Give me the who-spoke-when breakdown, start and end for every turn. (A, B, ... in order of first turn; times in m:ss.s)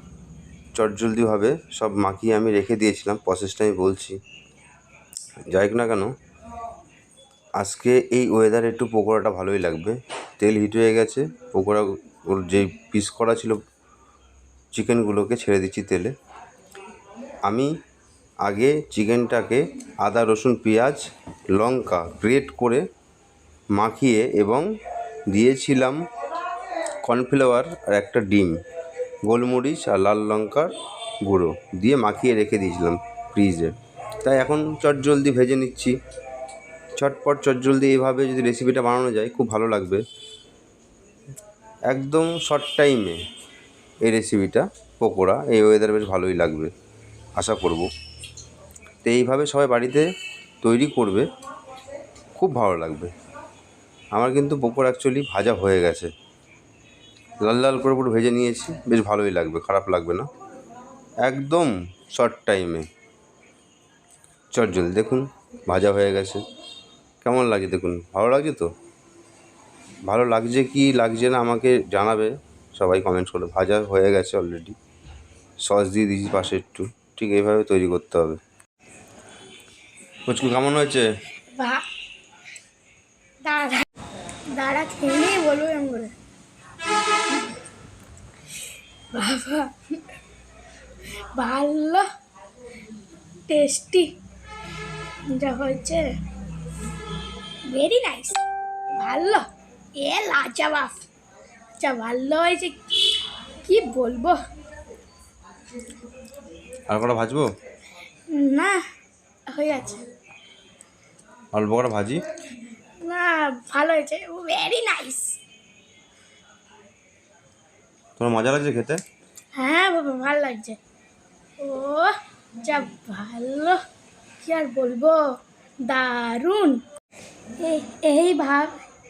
0:00.7-0:04.2 A
0:05.5-0:06.1 A
0:07.6-0:13.6 A
0:14.7-0:16.1 A
0:18.4-0:21.0 A
0:21.6-0:22.8 A
0:23.8-0:24.6 A
0:25.3-0:26.0 A
0:27.0-0:28.6 A
0:29.2-0:30.7 A
0:31.2-0:35.9 A
0:37.0-0:40.0 A
0:41.9-0:43.2 A
0:44.0-0:46.7 A
0:47.4-0:47.9 A
0:49.0-0:50.1 A
0:50.6-0:51.2 A
0:52.4-0:53.1 A
0:54.1-0:56.1 A
0:57.4-1:00.3 A
1:01.2-1:02.8 A
1:04.5-1:06.4 A
1:07.2-1:08.7 A
1:10.1-1:14.7 A
1:15.6-1:18.4 A
1:20.3-1:21.1 A
1:21.6-1:21.8 B
1:23.4-1:23.9 B
1:24.5-1:26.1 B
1:29.1-1:29.8 B
1:31.3-1:32.0 B
1:33.5-1:34.1 B
1:35.3-1:36.1 B
1:37.7-1:38.4 B
1:39.0-1:39.4 B
1:40.0-1:41.0 B
1:41.8-1:42.8 B
1:43.6-1:44.4 B
1:46.9-1:47.4 A
1:48.3-1:48.7 B
1:49.5-1:50.0 B
1:51.5-1:52.2 A
1:53.0-1:55.4 B
1:58.2-1:59.0 A
1:59.6-2:00.8 B
2:01.6-2:03.8 B
2:04.4-2:05.2 B
2:05.8-2:06.8 B
2:07.6-2:08.8 B